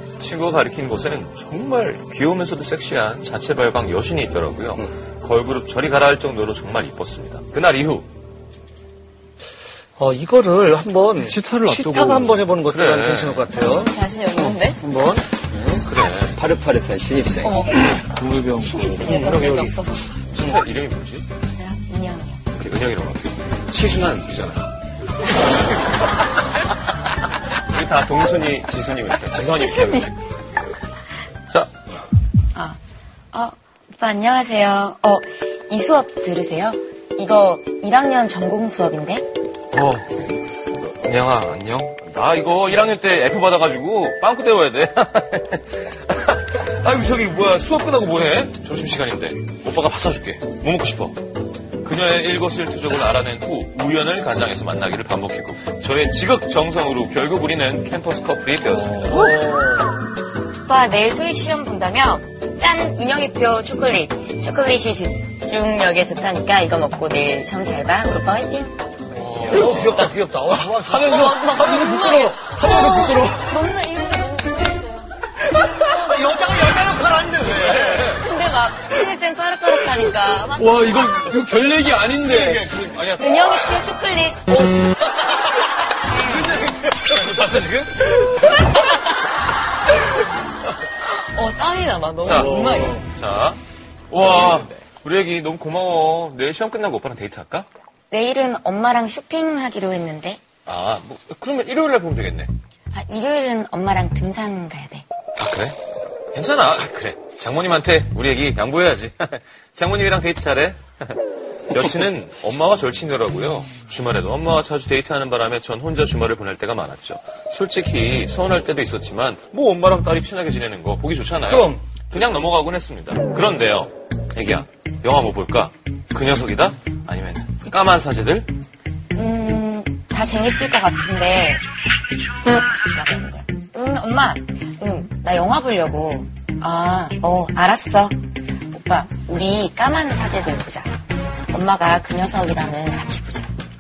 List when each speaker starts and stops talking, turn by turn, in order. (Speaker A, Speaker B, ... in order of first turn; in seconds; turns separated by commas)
Speaker A: 0.2-8.1, Speaker B: 10.0-15.3, Speaker C: 11.2-12.4, Speaker A: 12.7-13.5, Speaker D: 13.7-14.8, Speaker A: 15.7-16.4, Speaker E: 16.4-17.7, Speaker D: 17.4-20.1, Speaker C: 17.8-19.2, Speaker A: 19.1-19.7, Speaker B: 19.1-19.7, Speaker A: 20.3-21.3, Speaker D: 21.5-22.4, Speaker A: 22.6-24.7, Speaker A: 25.3-26.0, Speaker A: 27.7-30.1, Speaker D: 29.4-30.1, Speaker D: 33.3-39.3, Speaker A: 39.7-51.2, Speaker A: 51.8-59.2, Speaker C: 58.6-59.3, Speaker B: 59.1-60.0, Speaker D: 60.6-68.8, Speaker A: 69.1-70.1, Speaker B: 69.4-71.3, Speaker C: 70.6-73.6, Speaker D: 71.0-75.1, Speaker D: 75.8-76.3, Speaker B: 75.8-78.2, Speaker D: 78.0-81.3, Speaker C: 80.5-82.8, Speaker B: 82.3-82.9, Speaker A: 82.8-83.4, Speaker D: 83.2-84.8, Speaker A: 86.9-88.2, Speaker D: 91.2-93.0, Speaker A: 92.2-93.6, Speaker C: 92.5-92.9, Speaker A: 94.1-97.7, Speaker E: 94.1-94.8, Speaker D: 98.1-100.4, Speaker A: 100.7-102.5, Speaker D: 102.9-105.0, Speaker A: 105.4-105.8, Speaker A: 106.3-111.2, Speaker A: 111.7-128.5, Speaker B: 121.5-121.8, Speaker D: 129.2-131.6, Speaker D: 132.5-140.9, Speaker D: 141.5-143.5